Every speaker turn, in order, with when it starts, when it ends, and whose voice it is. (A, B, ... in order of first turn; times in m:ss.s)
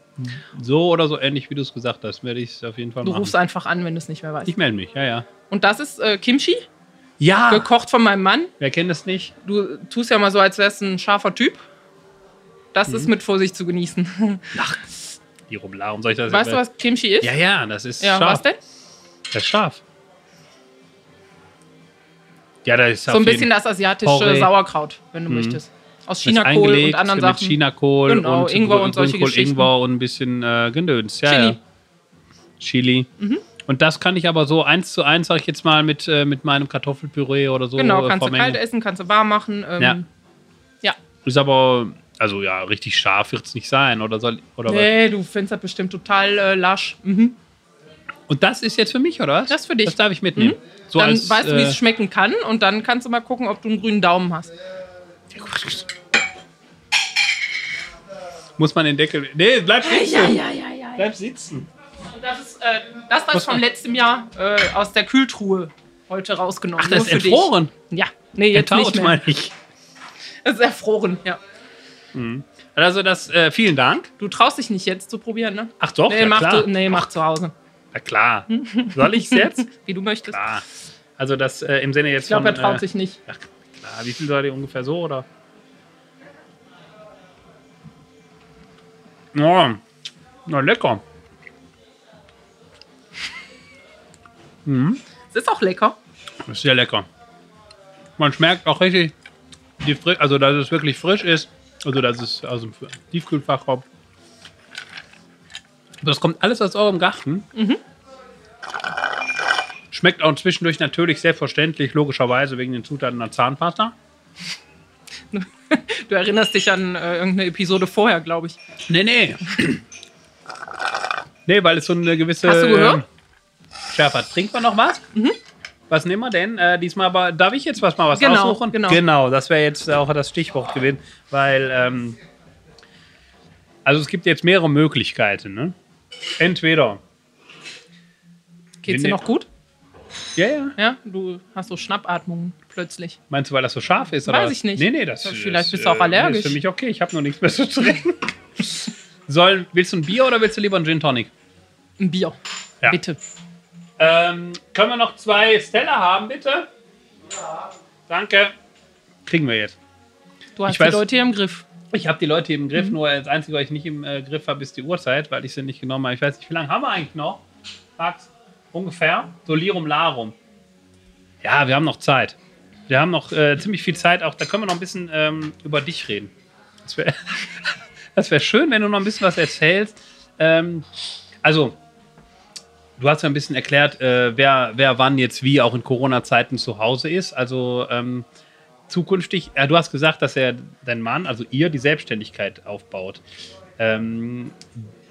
0:00.2-0:03.3 A
0:03.0-0:04.5 B
0:04.4-0:05.3 A
0:05.5-0:06.6 B
0:07.2-0:07.7 A
0:07.5-0:08.5 B
0:08.6-0:09.3 A
0:09.4-0:11.6 B
0:12.7-0:14.5 B
0:14.5-0:14.8 A
0:15.5-0:16.6 A
0:16.3-0:17.3 B
0:17.2-0:18.4 A
0:18.0-0:18.6 B
0:19.3-0:19.8 A
0:22.6-0:23.5 A
0:23.1-0:29.7 B
0:24.0-0:24.5 A
0:25.3-0:25.6 A
0:26.2-0:31.6 A
0:31.2-0:31.6 B
0:32.6-0:33.1 A
0:33.2-0:33.4 B
0:33.6-0:38.6 A
0:37.8-0:40.1 B
0:41.2-0:44.9 A
0:44.6-0:47.4 B
0:48.3-0:51.8 A
0:49.5-0:54.5 B
0:55.3-0:55.9 A
0:58.6-1:00.4 A
0:59.8-1:01.1 B
1:01.0-1:01.7 A
1:02.0-1:09.2 B
1:03.3-1:03.6 A
1:06.8-1:07.7 A
1:08.5-1:09.5 A
1:10.4-1:11.4 B
1:12.1-1:14.1 A
1:14.2-1:17.5 B
1:15.8-1:16.7 A
1:17.9-1:19.7 A
1:18.5-1:20.4 B
1:20.3-1:20.6 A
1:21.2-1:25.2 A
1:22.3-1:23.2 B
1:29.3-1:29.8 A
1:30.4-1:31.0 A
1:34.6-1:35.0 A
1:35.3-1:36.0 B
1:36.5-1:37.1 A
1:38.2-1:39.1 A
1:39.8-1:43.8 A
1:46.0-1:47.5 A
1:47.5-1:47.8 B
1:49.9-1:53.9 A
1:55.3-1:58.6 B
1:58.9-1:59.8 A
2:01.4-2:03.0 A
2:02.4-2:03.0 B
2:03.9-2:05.0 A
2:05.9-2:12.2 A
2:08.1-2:09.0 B
2:13.8-2:15.7 A
2:16.4-2:17.0 A
2:18.8-2:19.5 B
2:18.9-2:19.2 A
2:20.4-2:20.7 A
2:20.8-2:23.2 B
2:23.3-2:31.3 A
2:24.2-2:26.6 B
2:32.0-2:33.2 B
2:34.0-2:36.7 A
2:38.1-2:38.5 A
2:39.2-2:39.8 A
2:40.6-2:41.6 B
2:40.7-2:41.0 A
2:41.9-2:47.4 A
2:48.0-2:50.3 A
2:51.4-2:52.4 A
2:52.9-2:56.3 A
2:56.8-3:00.8 A
3:01.4-3:01.8 A
3:03.0-3:08.3 A
3:08.9-3:13.2 A
3:13.8-3:14.8 A